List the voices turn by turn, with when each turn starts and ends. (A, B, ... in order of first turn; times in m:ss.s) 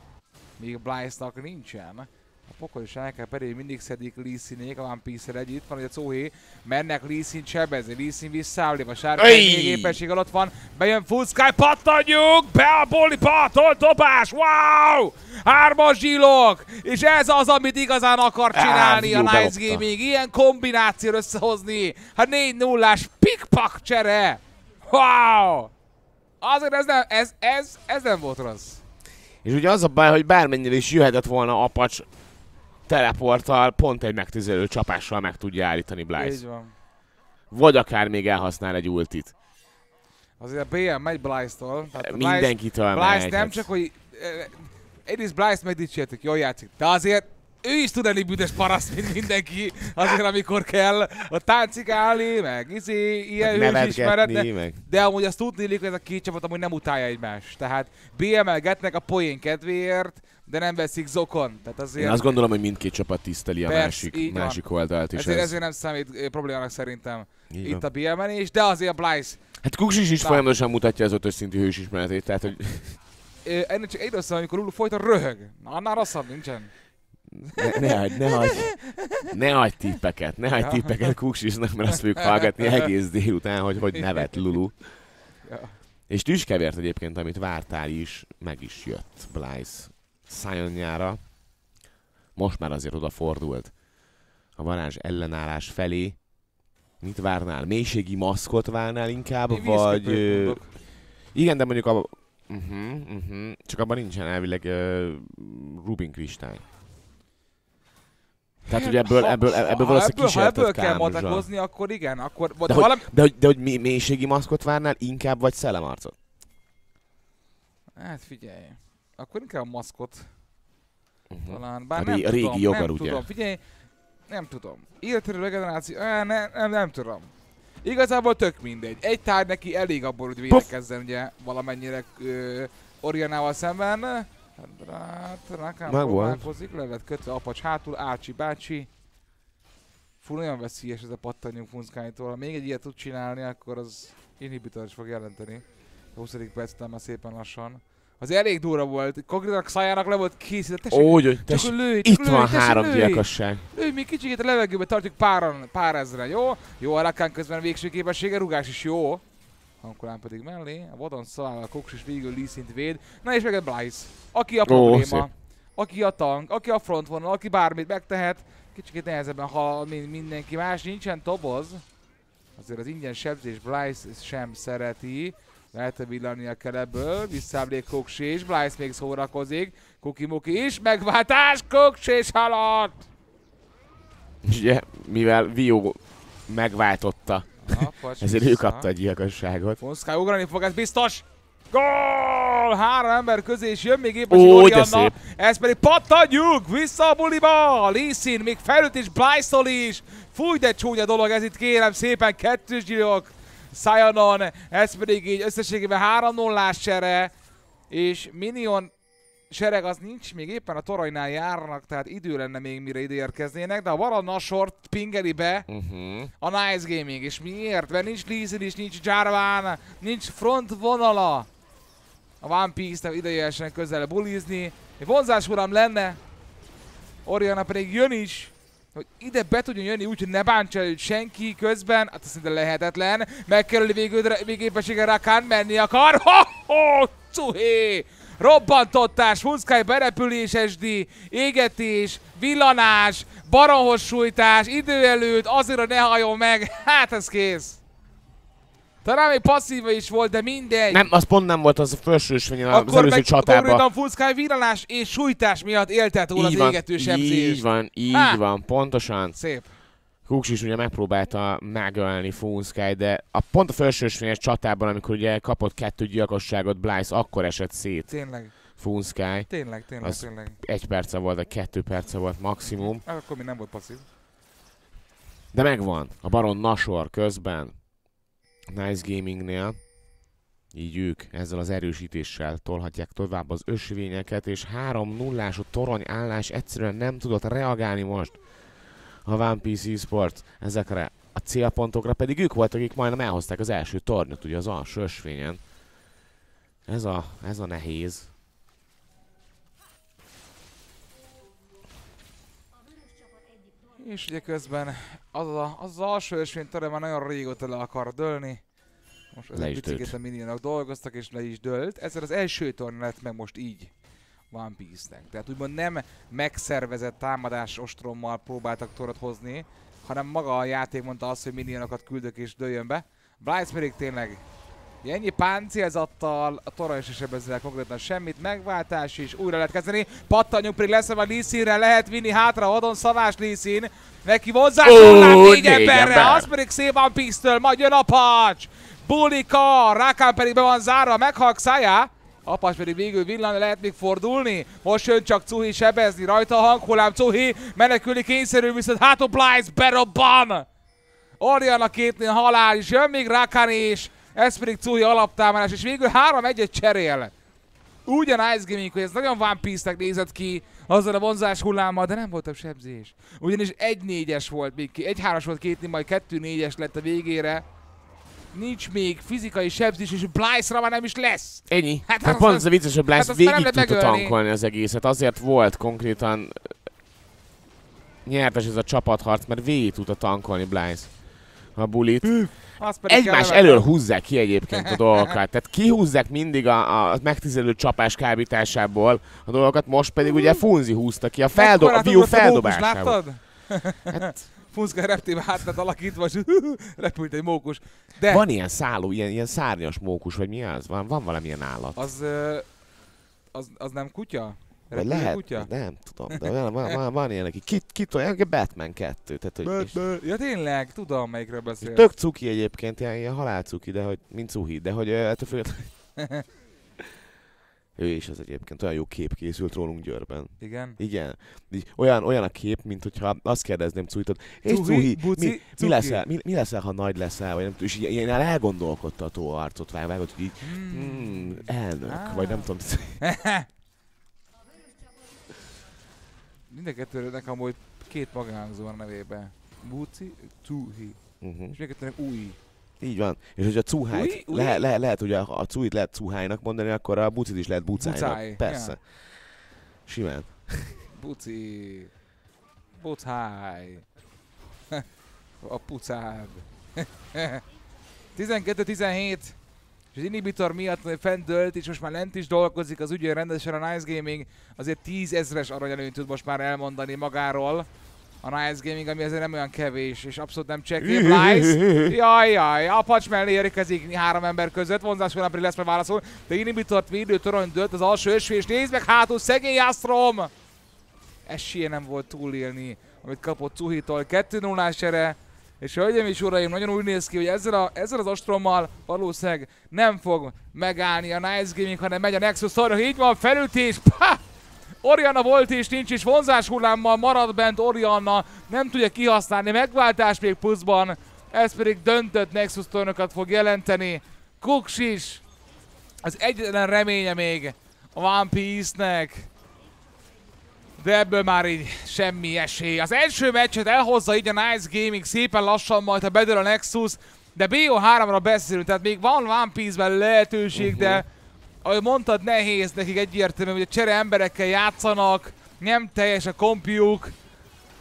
0:00.6-0:25.7 A
0:09.2-0:10.0 B
0:18.5-0:19.8 B
0:26.4-0:28.8 A
0:29.4-0:32.1 B
0:32.9-0:36.4 B
0:36.2-0:36.7 A
0:37.5-0:39.3 B
0:40.4-1:02.4 A
0:41.9-0:43.7 B
0:53.4-0:54.8 B
1:02.0-1:05.6 B
1:03.6-1:09.4 A
1:07.5-1:07.8 B
1:09.6-1:13.0 B
1:13.4-1:16.7 A
1:17.3-1:24.8 B
1:17.5-1:19.3 A
1:20.6-1:21.1 A
1:22.2-1:22.9 A
1:23.9-1:24.3 A
1:25.4-1:25.8 A
1:26.1-1:31.2 B
1:32.4-1:33.7 B
1:34.6-1:36.2 B
1:37.0-1:40.6 B
1:39.5-1:40.7 A
1:41.3-1:46.6 B
1:48.7-1:53.0 A
1:48.7-1:51.5 B
1:52.7-1:56.2 B
1:58.0-2:00.3 A
2:01.3-2:03.2 B
2:01.5-2:03.6 A
2:04.3-2:07.3 A
2:07.8-2:18.9 A
2:15.9-2:16.5 B
2:20.2-2:39.2 A
2:30.9-2:33.7 B
2:39.8-2:51.8 A
2:44.6-2:45.3 B
2:52.6-3:03.0 A
3:04.4-3:09.8 B
3:07.6-3:08.9 A
3:09.8-3:27.3 A
3:14.3-3:15.1 B
3:27.9-3:28.9 A
3:29.5-3:35.7 A
3:35.7-3:36.3 B
3:36.4-3:41.5 A
3:42.4-3:46.2 A
3:47.2-4:07.8 A
4:09.0-4:11.0 A
4:10.9-4:13.8 B
4:12.7-4:18.4 A
4:16.3-4:19.4 B
4:19.3-4:19.7 A
4:20.2-4:28.1 B
4:28.1-4:28.5 A
4:28.7-4:33.0 B
4:29.5-4:30.6 A
4:32.7-4:34.0 A
4:35.5-4:37.7 B
4:38.7-4:39.8 B
4:40.7-4:48.4 B
4:49.2-4:55.6 B
4:56.8-4:58.3 B
5:03.9-5:08.6 A
5:09.3-5:13.9 A
5:09.5-5:10.1 B
5:14.5-5:24.4 A
5:25.0-5:50.7 A
5:34.8-5:36.5 B
5:51.4-5:57.3 A
5:58.0-6:07.6 A
6:08.5-6:14.4 A
6:11.7-6:16.7 B
6:18.2-6:21.1 B
6:21.7-6:33.3 B
6:22.2-6:23.9 A
6:24.8-6:25.3 A
6:31.5-6:38.4 A
6:34.1-6:34.4 B
6:38.3-6:42.0 B
6:41.9-6:42.7 A
6:43.5-6:45.7 A
6:44.9-6:50.0 B
6:46.3-6:47.0 A
6:49.6-6:52.1 A
6:51.8-6:55.9 B
6:56.2-6:56.4 A
6:58.0-7:13.2 B
7:00.6-7:01.0 A
7:04.6-7:06.2 A
7:10.6-7:12.7 A
7:13.2-7:13.6 A
7:16.7-7:22.6 A
7:21.4-7:21.8 B
7:23.0-7:31.0 B
7:24.1-7:24.8 A
7:28.0-7:29.0 A
7:31.1-7:32.1 A
7:33.0-7:34.0 A
7:35.6-7:37.6 A
7:38.3-7:39.6 A
7:40.1-7:47.9 A
7:48.4-8:00.5 A
7:51.0-7:52.1 B
8:01.4-8:14.4 A
8:15.0-8:25.4 A
8:26.2-8:29.5 A
8:31.0-8:41.3 A
8:40.7-8:41.2 B
8:41.8-8:47.3 A